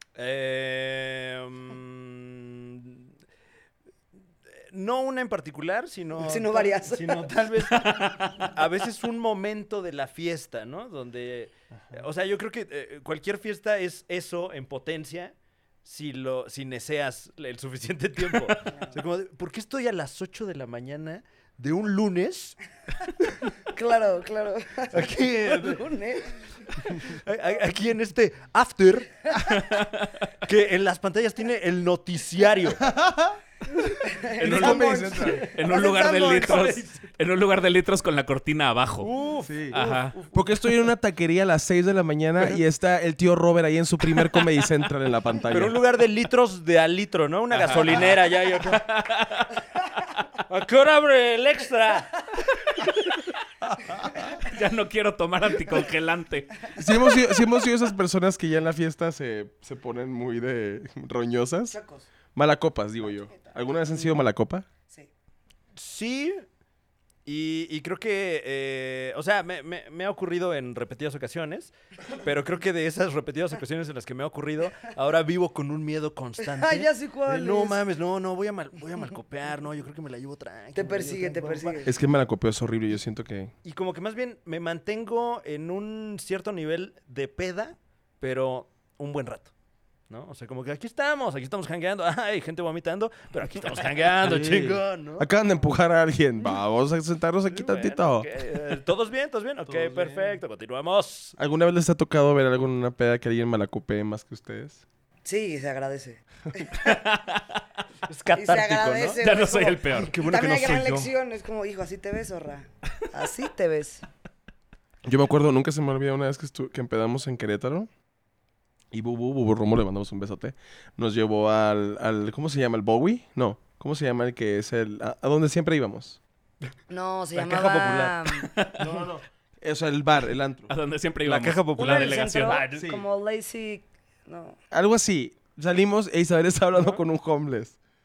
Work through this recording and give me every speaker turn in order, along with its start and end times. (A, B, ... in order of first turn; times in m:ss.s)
0:00.2-0:03.1 A
0:04.5-0:22.6 A
0:06.2-0:07.3 B
0:23.7-0:26.4 B
0:24.9-0:25.8 A
0:26.9-0:29.4 A
0:29.4-0:30.1 C
0:30.4-0:32.8 A
0:32.8-0:33.4 D
0:34.1-0:36.8 B
0:34.4-0:39.1 C
0:34.4-0:35.4 D
0:35.7-0:36.9 A
0:39.0-0:40.4 A
0:39.4-0:39.8 D
0:39.7-0:40.2 C
0:40.3-0:45.8 D
0:45.5-0:48.8 A
0:47.5-0:49.5 C
0:50.5-0:52.2 A
0:54.1-0:56.7 C
0:56.7-1:01.8 D
1:01.7-1:02.1 B
1:02.4-1:04.7 D
1:05.8-1:06.4 A
1:07.2-1:21.8 A
1:16.4-1:17.8 B
1:20.7-1:21.9 B
1:21.8-1:23.5 D
1:23.6-1:29.5 A
1:30.1-1:35.3 A
1:34.2-1:38.3 D
1:37.5-1:41.4 A
1:39.7-1:40.4 D
1:41.4-1:44.8 D
1:45.2-1:46.9 B
1:46.8-1:47.4 C
1:48.1-1:49.2 A
1:48.3-1:54.0 B
1:49.2-1:50.2 C
1:49.9-1:51.1 A
1:55.0-1:57.9 D
1:58.9-2:06.2 D
2:06.9-2:08.5 B
2:07.4-2:08.2 A
2:08.5-2:08.9 C
2:08.8-2:10.7 D
2:10.7-2:12.7 C
2:11.2-2:12.9 A
2:11.8-2:14.6 B
2:12.7-2:13.0 D
2:14.7-2:17.8 D